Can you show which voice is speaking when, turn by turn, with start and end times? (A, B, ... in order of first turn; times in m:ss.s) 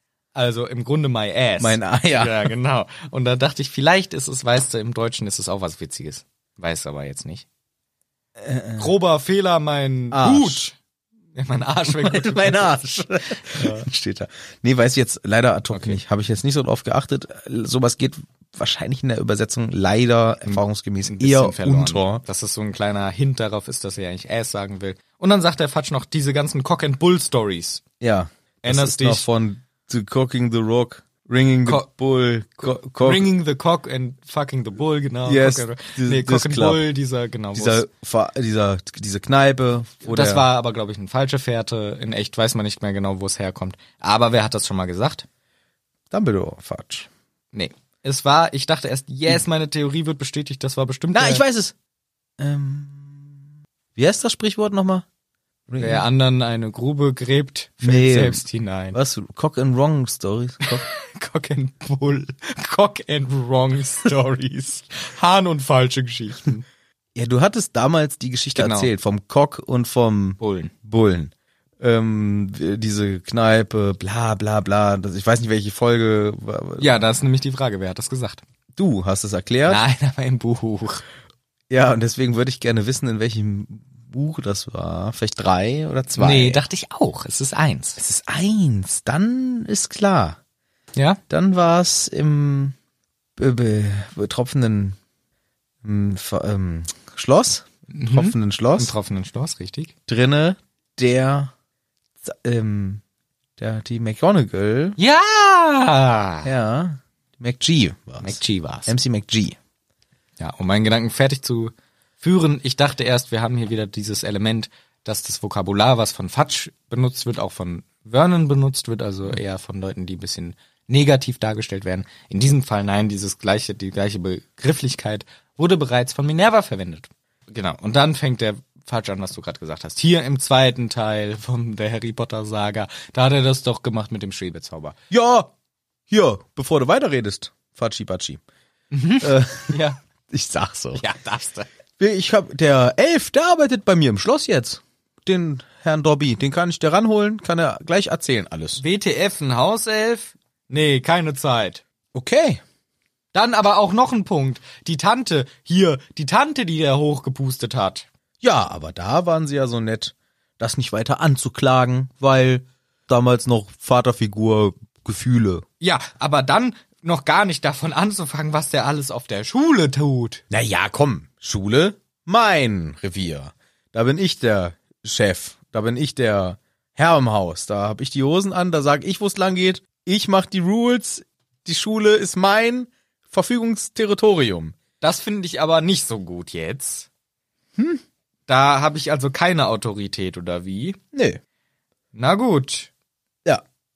0:00.3-0:07.4 A
0:01.6-0:02.5 B
0:08.4-0:08.9 B
0:08.8-0:10.7 A
0:10.1-0:10.7 B
0:11.3-0:13.9 A
0:11.9-0:22.2 B
0:15.7-0:16.0 A
0:20.5-0:27.8 A
0:28.0-0:33.3 B
0:28.6-0:29.2 A
0:32.6-0:37.8 A
0:35.2-0:36.8 B
0:37.5-0:40.5 B
0:40.0-0:45.2 A
0:46.1-0:47.1 B
0:47.5-0:51.4 A
0:51.1-0:51.7 B
0:52.4-0:53.4 B
0:53.9-0:55.0 B
0:55.7-0:56.0 B
0:55.8-0:59.0 A
0:57.8-1:00.8 B
1:00.6-1:06.6 A
1:07.1-1:16.9 B
1:08.6-1:08.9 A
1:10.4-1:10.7 A
1:16.8-1:18.4 A
1:18.8-1:19.8 B
1:19.6-1:21.0 A
1:21.7-1:26.6 B
1:26.2-1:28.0 A
1:28.0-1:30.4 B
1:30.9-1:31.2 A
1:31.3-1:32.7 B
1:33.4-1:35.0 B
1:35.8-1:38.9 B
1:37.9-1:39.9 A
1:40.1-1:41.5 B
1:42.2-1:43.0 B
1:43.6-1:45.0 B
1:45.0-1:46.5 A
1:46.4-1:49.6 B
1:48.2-1:48.9 A
1:50.4-2:15.0 A
2:15.1-2:15.5 B
2:16.1-2:18.4 B
2:18.9-2:20.0 A
2:19.2-2:19.8 B
2:20.3-2:21.0 B
2:21.0-2:21.7 A
2:22.0-2:28.8 B
2:28.8-2:31.8 A
2:32.1-2:32.6 B
2:33.3-2:38.0 A
2:38.4-2:45.6 B
2:45.8-2:50.4 A
2:50.5-3:04.7 B
3:05.0-3:07.1 A
3:07.8-3:08.0 B
3:08.5-3:11.0 A
3:11.1-3:11.4 B
3:12.1-3:12.9 A